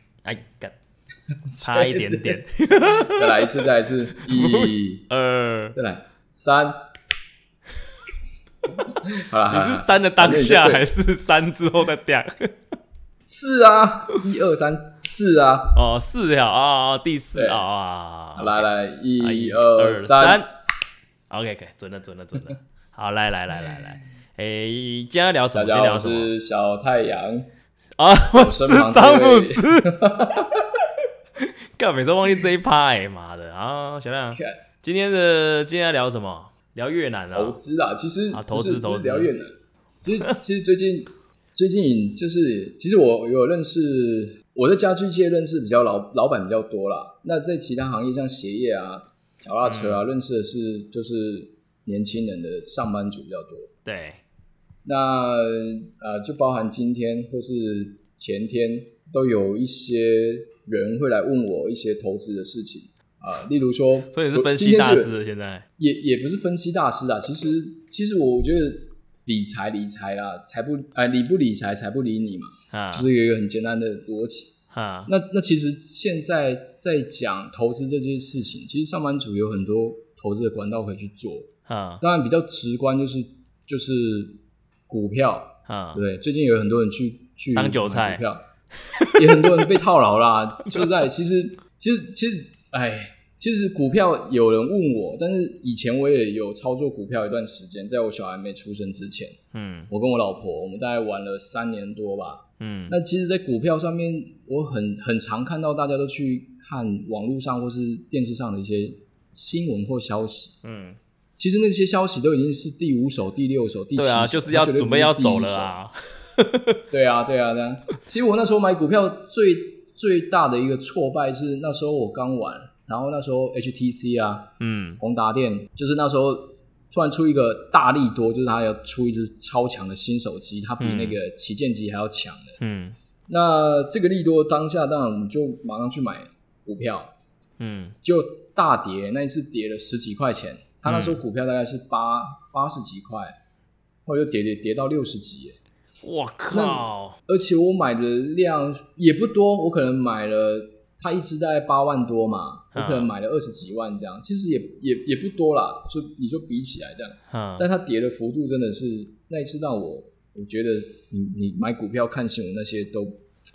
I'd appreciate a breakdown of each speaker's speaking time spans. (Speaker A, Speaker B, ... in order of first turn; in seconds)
Speaker A: 0.2-0.7, 1.6-5.8, 9.5-12.5, 15.7-18.7, 19.2-20.5, 21.3-26.3, 28.0-30.1, 31.4-37.6, 38.3-39.3, 49.6-50.0, 53.8-54.2, 64.1-65.7, 72.7-73.1, 74.7-75.1, 81.7-82.0, 85.7-86.0, 87.5-88.2, 88.8-89.7, 99.5-99.9, 102.6-103.0, 110.6-111.0, 114.0-116.8, 124.6-125.0, 130.8-131.2, 132.6-133.0, 137.6-137.9, 140.8-141.2, 146.0-147.2, 152.7-153.1, 157.3-157.7
Speaker B: 1.4-2.4, 3.0-5.0, 5.7-6.8, 8.6-10.9, 13.2-15.8, 17.3-17.6, 18.4-20.4, 25.5-27.5, 28.3-30.9, 37.3-53.7, 54.8-65.1, 65.8-74.5, 75.1-81.5, 82.0-84.4, 84.9-88.4, 89.1-99.4, 99.9-110.5, 111.4-115.7, 116.9-124.5, 125.0-132.6, 133.3-137.1, 138.0-143.3, 144.1-145.6, 146.5-163.2